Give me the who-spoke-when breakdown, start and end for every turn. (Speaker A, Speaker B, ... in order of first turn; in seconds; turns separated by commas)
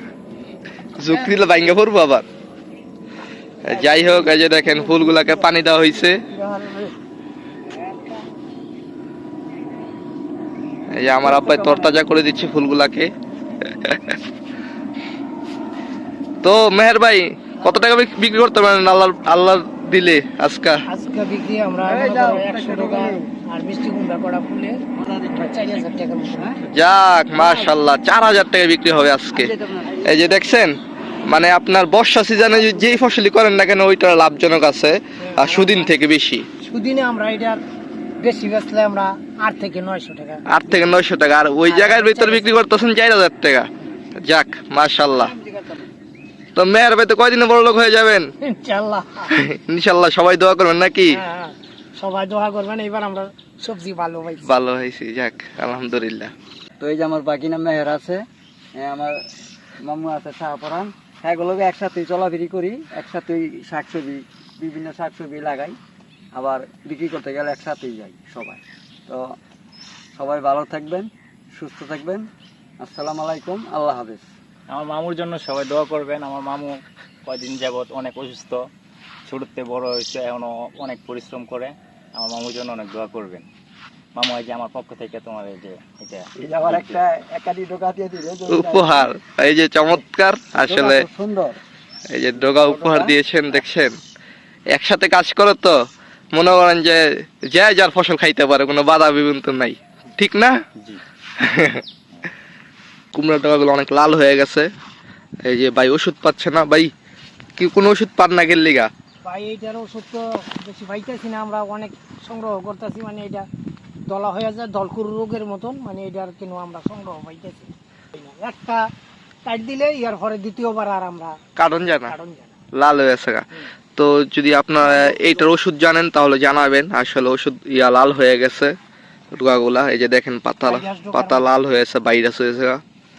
Speaker A: 1.0-2.2, Speaker A: 3.6-6.2, Speaker B: 3.7-5.5, Speaker B: 6.3-6.9, Speaker A: 10.9-13.1, Speaker B: 11.2-12.0, Speaker A: 13.7-14.2, Speaker A: 16.4-20.8, Speaker C: 20.9-24.8, Speaker B: 21.8-23.3, Speaker B: 24.9-26.6, Speaker C: 25.3-26.6, Speaker A: 26.7-36.5, Speaker B: 27.4-27.7, Speaker B: 29.3-30.5, Speaker B: 32.5-33.1, Speaker C: 35.2-36.0, Speaker C: 36.6-37.6, Speaker C: 38.2-40.8, Speaker A: 40.5-45.3, Speaker C: 41.6-42.6, Speaker B: 45.3-45.9, Speaker A: 46.6-48.3, Speaker C: 48.4-49.3, Speaker A: 49.3-51.2, Speaker C: 51.1-54.5, Speaker A: 54.4-56.3, Speaker B: 56.8-58.2, Speaker B: 58.8-59.2, Speaker B: 59.8-65.8, Speaker B: 66.3-69.3, Speaker B: 70.2-72.3, Speaker B: 72.8-74.3, Speaker D: 74.7-78.6, Speaker D: 79.3-83.5, Speaker D: 84.2-87.0, Speaker B: 86.4-89.2, Speaker A: 88.5-91.1, Speaker B: 90.6-91.6, Speaker A: 92.1-94.0, Speaker B: 92.3-93.2, Speaker A: 94.7-95.8, Speaker A: 96.3-100.6, Speaker A: 101.4-101.8, Speaker A: 103.1-104.7, Speaker A: 105.5-106.9, Speaker A: 107.6-108.9, Speaker C: 109.2-113.5, Speaker C: 114.1-118.8, Speaker C: 119.5-121.4, Speaker A: 121.6-122.1, Speaker C: 122.1-122.5, Speaker A: 122.8-123.5, Speaker A: 124.0-128.7, Speaker C: 124.8-125.4, Speaker A: 129.3-132.8, Speaker C: 130.6-131.5